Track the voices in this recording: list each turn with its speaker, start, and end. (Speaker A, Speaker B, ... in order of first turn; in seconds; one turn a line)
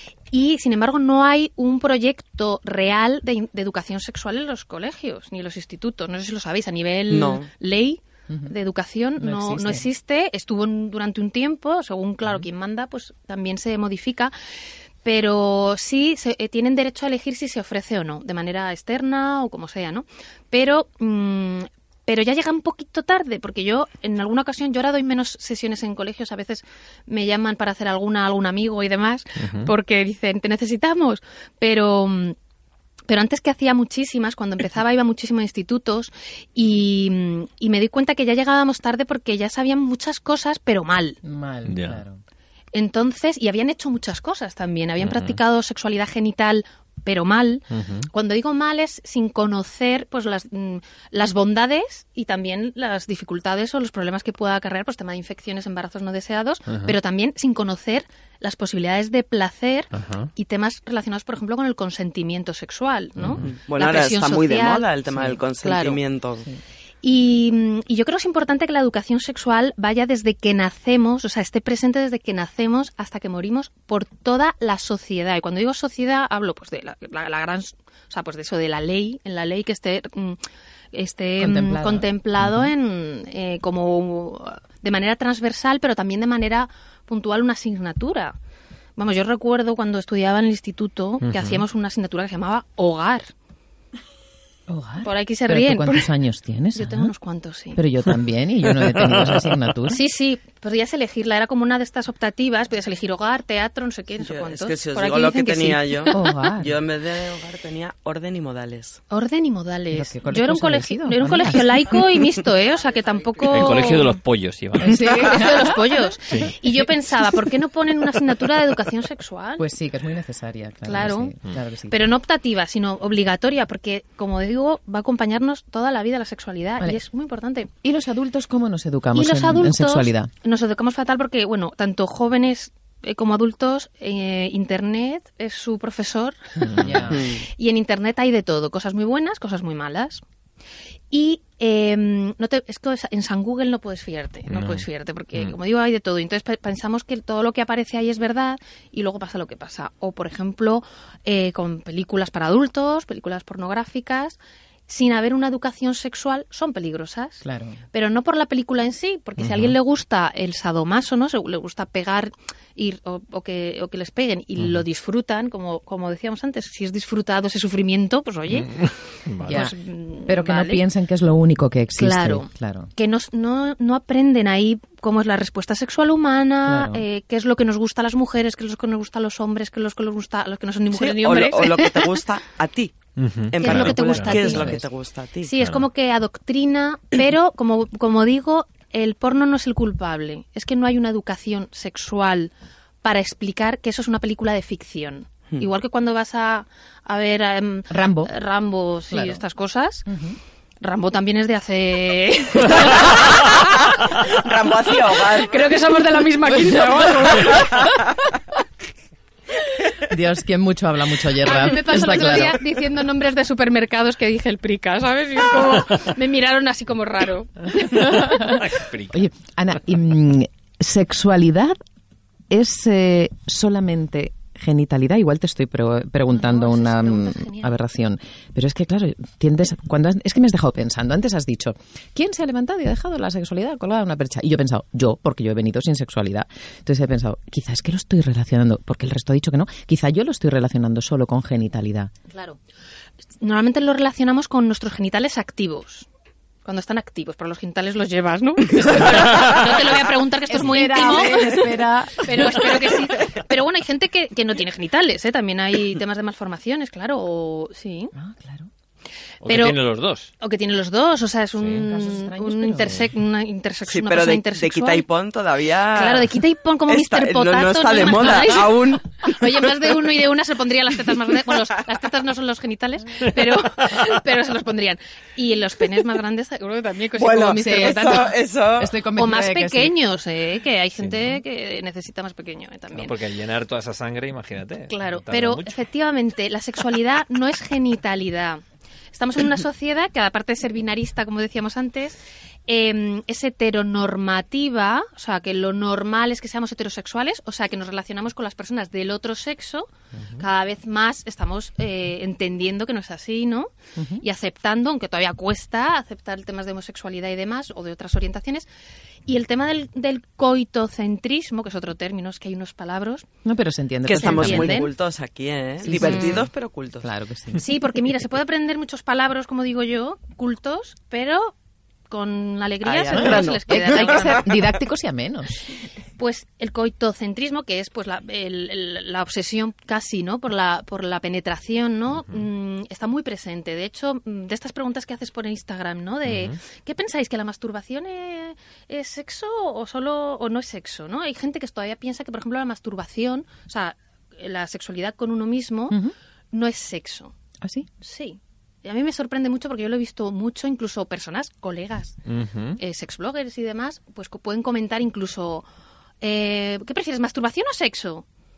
Speaker A: 0.3-14.3
Speaker B: 7.1-7.5
Speaker C: 9.2-9.8
Speaker A: 15.0-32.4
Speaker D: 29.4-29.7
Speaker A: 33.1-41.2
Speaker C: 41.2-42.2
Speaker D: 41.6-42.0
Speaker A: 42.7-66.0
Speaker D: 45.0-45.4
Speaker D: 47.7-48.1
Speaker D: 60.0-60.3
Speaker D: 63.2-63.5
Speaker B: 63.3-66.5
Speaker A: 67.0-80.4
Speaker A: 80.9-88.3
Speaker C: 81.4-82.1
Speaker A: 89.0-93.3
Speaker D: 91.2-91.6
Speaker C: 94.7-97.1
Speaker A: 95.0-96.1
Speaker A: 96.7-97.8
Speaker C: 97.8-100.0
Speaker A: 99.9-106.4
Speaker B: 104.2-109.0
Speaker C: 106.1-106.8
Speaker A: 109.1-114.2
Speaker C: 109.9-111.8
Speaker D: 113.5-115.0
Speaker C: 114.8-115.9
Speaker A: 114.9-119.7
Speaker C: 119.6-122.0
Speaker A: 120.8-127.7
Speaker C: 127.8-130.3
Speaker A: 129.1-140.2
Speaker D: 136.8-137.0
Speaker C: 136.8-137.2
Speaker B: 137.1-137.4
Speaker A: 141.1-168.9
Speaker D: 144.5-145.6
Speaker C: 157.4-157.8
Speaker D: 159.4-159.8
Speaker D: 168.6-169.6
Speaker A: 169.4-170.9
Speaker C: 169.5-172.9
Speaker A: 171.9-182.2
Speaker C: 176.7-177.0
Speaker B: 180.9-182.9
Speaker D: 183.2-184.8
Speaker B: 183.5-185.5
Speaker A: 183.6-184.8
Speaker C: 184.6-184.8
Speaker A: 185.4-200.1
Speaker C: 197.9-198.3
Speaker C: 199.1-199.4
Speaker C: 200.1-200.4
Speaker A: 200.8-204.5
Speaker B: 204.3-205.8
Speaker A: 205.1-207.7
Speaker C: 206.5-208.1
Speaker B: 207.4-208.0
Speaker C: 210.0-212.6
Speaker A: 211.3-218.3
Speaker D: 218.2-219.3
Speaker C: 219.1-221.8
Speaker C: 222.5-242.1
Speaker A: 226.3-227.8
Speaker A: 242.3-242.6
Speaker A: 243.4-246.1
Speaker A: 246.7-258.1
Speaker C: 250.5-252.9
Speaker C: 258.2-258.7
Speaker D: 259.4-260.3
Speaker A: 259.5-259.8
Speaker A: 260.4-265.1
Speaker C: 261.7-263.0
Speaker B: 263.9-269.4
Speaker A: 265.9-278.4
Speaker B: 277.2-278.9
Speaker C: 277.6-279.9
Speaker A: 279.1-283.1
Speaker D: 281.0-281.4
Speaker D: 282.9-285.8
Speaker A: 284.9-288.6
Speaker A: 289.1-308.7
Speaker C: 304.0-304.2
Speaker A: 309.3-313.3
Speaker C: 313.4-314.8
Speaker B: 314.1-317.1
Speaker A: 314.1-314.9
Speaker A: 315.9-316.5
Speaker C: 315.9-316.5
Speaker C: 317.0-317.6
Speaker A: 317.5-321.5
Speaker A: 322.1-324.6
Speaker B: 322.9-324.6
Speaker C: 323.1-325.6
Speaker A: 326.2-346.0
Speaker D: 336.2-336.5
Speaker A: 346.5-347.3
Speaker A: 348.0-352.2
Speaker D: 352.3-352.8
Speaker A: 352.8-355.6
Speaker A: 356.2-358.2